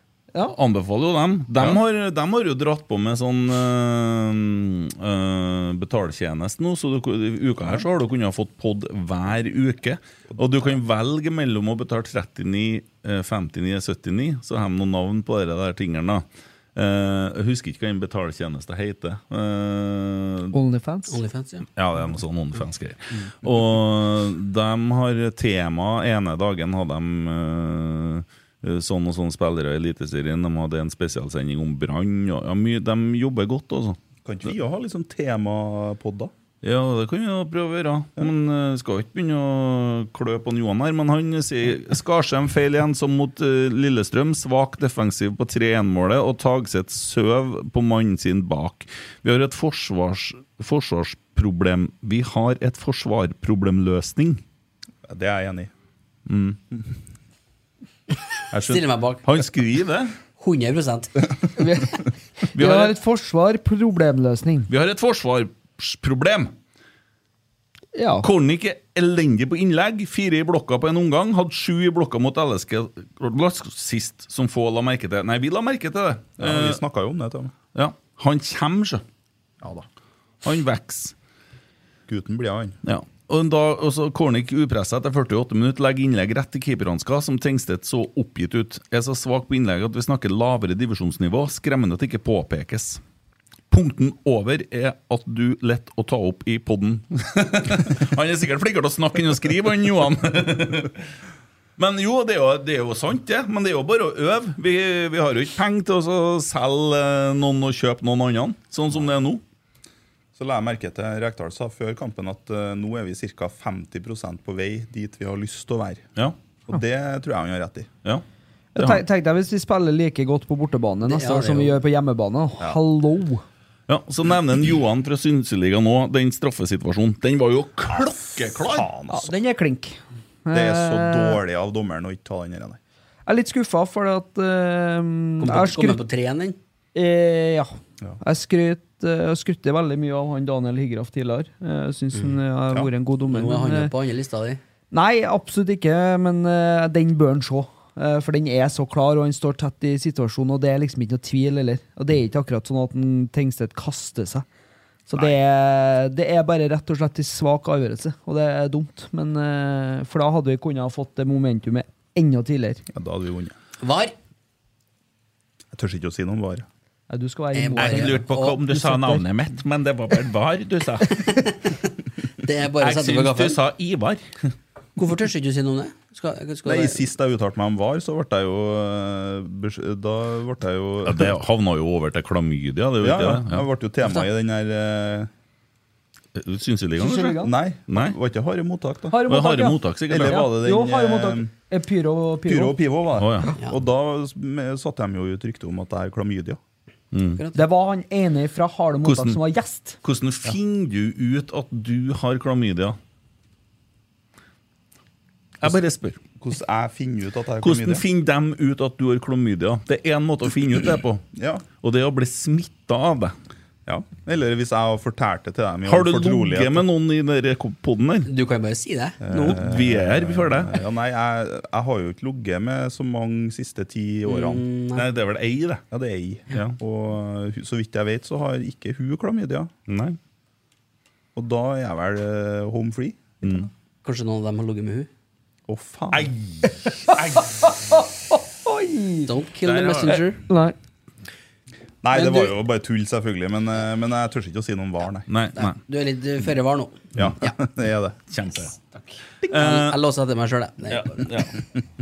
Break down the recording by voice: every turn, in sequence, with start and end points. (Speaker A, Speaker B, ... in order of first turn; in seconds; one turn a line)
Speaker A: 0.5-20.6
Speaker B: 10.3-10.8
Speaker C: 20.5-21.2
Speaker D: 21.1-21.7
Speaker A: 21.8-34.0
Speaker B: 34.2-36.3
Speaker A: 36.6-54.4
Speaker B: 55.1-55.7
Speaker A: 56.3-56.6
Speaker A: 58.5-60.1
Speaker D: 58.6-59.3
Speaker D: 60.4-61.3
Speaker C: 61.6-62.0
Speaker A: 62.5-63.0
Speaker C: 62.5-64.7
Speaker A: 64.7-66.5
Speaker C: 68.0-68.3
Speaker A: 68.2-76.8
Speaker B: 76.4-77.6
Speaker A: 77.7-79.0
Speaker B: 79.6-79.9
Speaker A: 80.4-81.2
Speaker B: 82.1-82.8
Speaker A: 82.8-93.0
Speaker A: 93.7-101.0
Speaker A: 101.8-109.4
Speaker B: 110.3-116.1
Speaker B: 116.7-117.9
Speaker C: 118.8-123.4
Speaker A: 118.8-119.0
Speaker D: 121.0-121.8
Speaker A: 123.9-128.9
Speaker B: 127.9-129.3
Speaker C: 129.1-131.4
Speaker B: 130.5-132.8
Speaker C: 133.3-136.0
Speaker D: 135.4-136.6
Speaker C: 136.9-143.9
Speaker D: 143.2-144.6
Speaker C: 144.9-154.4
Speaker C: 155.1-162.8
Speaker B: 162.9-163.6
Speaker D: 163.8-164.1
Speaker B: 165.7-166.7
Speaker C: 167.1-169.2
Speaker D: 167.5-168.6
Speaker A: 167.8-171.3
Speaker D: 171.3-171.8
Speaker D: 172.4-173.6
Speaker A: 172.8-174.3
Speaker D: 175.0-177.0
Speaker B: 176.6-181.4
Speaker A: 181.1-183.7
Speaker B: 183.0-185.3
Speaker A: 186.3-188.2
Speaker C: 187.0-187.6
Speaker B: 187.4-189.2
Speaker C: 189.1-192.8
Speaker A: 189.3-190.5
Speaker B: 190.1-191.5
Speaker B: 192.5-196.6
Speaker A: 193.2-193.5
Speaker A: 197.1-197.4
Speaker D: 197.4-197.6
Speaker C: 197.6-200.0
Speaker A: 199.1-199.4
Speaker A: 200.0-203.0
Speaker A: 205.6-206.2
Speaker B: 206.4-208.0
Speaker A: 207.6-211.2
Speaker B: 211.3-211.7
Speaker A: 211.8-213.3
Speaker B: 213.9-216.9
Speaker A: 215.9-218.3
Speaker D: 218.3-219.6
Speaker B: 219.2-224.6
Speaker A: 219.5-220.7
Speaker D: 224.3-225.1
Speaker A: 224.9-225.8
Speaker B: 225.9-229.7
Speaker A: 229.9-230.2
Speaker B: 231.3-233.7
Speaker D: 234.0-235.1
Speaker B: 235.7-236.3
Speaker A: 236.1-237.5
Speaker C: 237.1-239.3
Speaker D: 239.3-240.4
Speaker A: 239.7-240.2
Speaker C: 240.5-240.8
Speaker B: 242.0-245.3
Speaker D: 242.2-242.5
Speaker A: 245.3-245.8
Speaker D: 245.6-247.5
Speaker B: 247.2-248.2
Speaker A: 248.3-248.7
Speaker D: 248.9-251.3
Speaker A: 249.5-250.0
Speaker A: 250.9-251.5